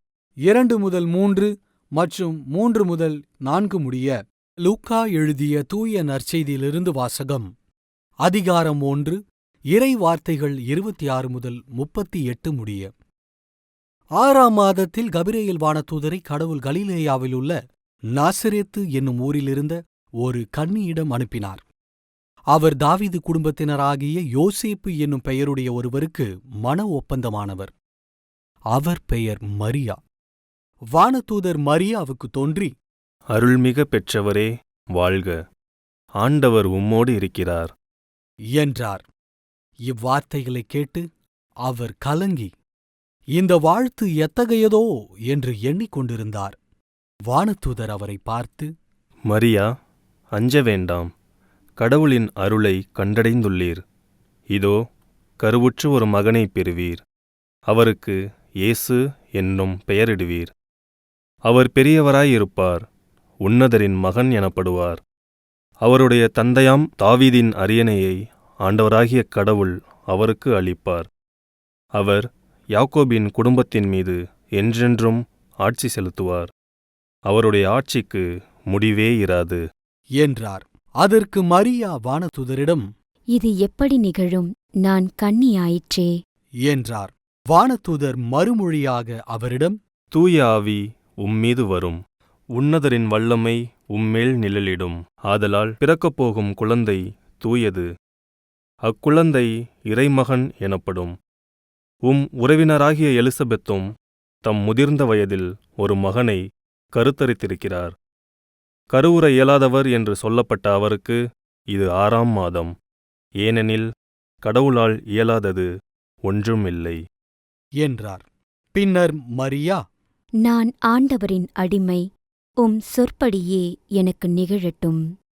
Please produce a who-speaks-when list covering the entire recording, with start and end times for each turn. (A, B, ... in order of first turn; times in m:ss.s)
0:00.5-0:07.5 A
0:08.2-0:09.2 A
0:09.7-0:12.9 A
0:14.2-0:17.6 A
0:18.1-0:21.6 A
0:22.5-0:27.7 A
0:28.7-0:30.0 A
0:30.9-0:32.7 A
0:33.3-0:35.4 B
0:36.2-0:37.7 B
0:38.6-0:39.0 A
0:39.9-0:41.1 A
0:41.7-0:42.5 A
0:43.4-0:46.6 A
0:47.3-0:48.7 A
0:49.3-0:49.7 B
0:50.4-0:51.1 B
0:51.8-0:53.8 B
0:55.4-0:57.0 B
0:57.7-1:00.5 B
1:01.5-1:02.8 B
1:03.4-1:05.0 B
1:05.8-1:11.1 B
1:12.0-1:16.5 B
1:17.3-1:19.6 B
1:20.2-1:22.9 A
1:23.3-1:26.1 C
1:26.7-1:29.8 A
1:30.1-1:32.0 B
1:32.6-1:37.9 B
1:38.9-1:41.1 B
1:42.1-1:43.8 B
1:44.4-1:46.4 B
1:47.0-1:47.9 B
1:48.9-1:51.2 B
1:51.7-1:52.7 B
1:53.4-1:53.9 B
1:54.4-1:55.7 B
1:56.3-1:57.0 B
1:57.8-1:59.8 A
2:00.4-2:02.0 C
2:02.6-2:05.0 C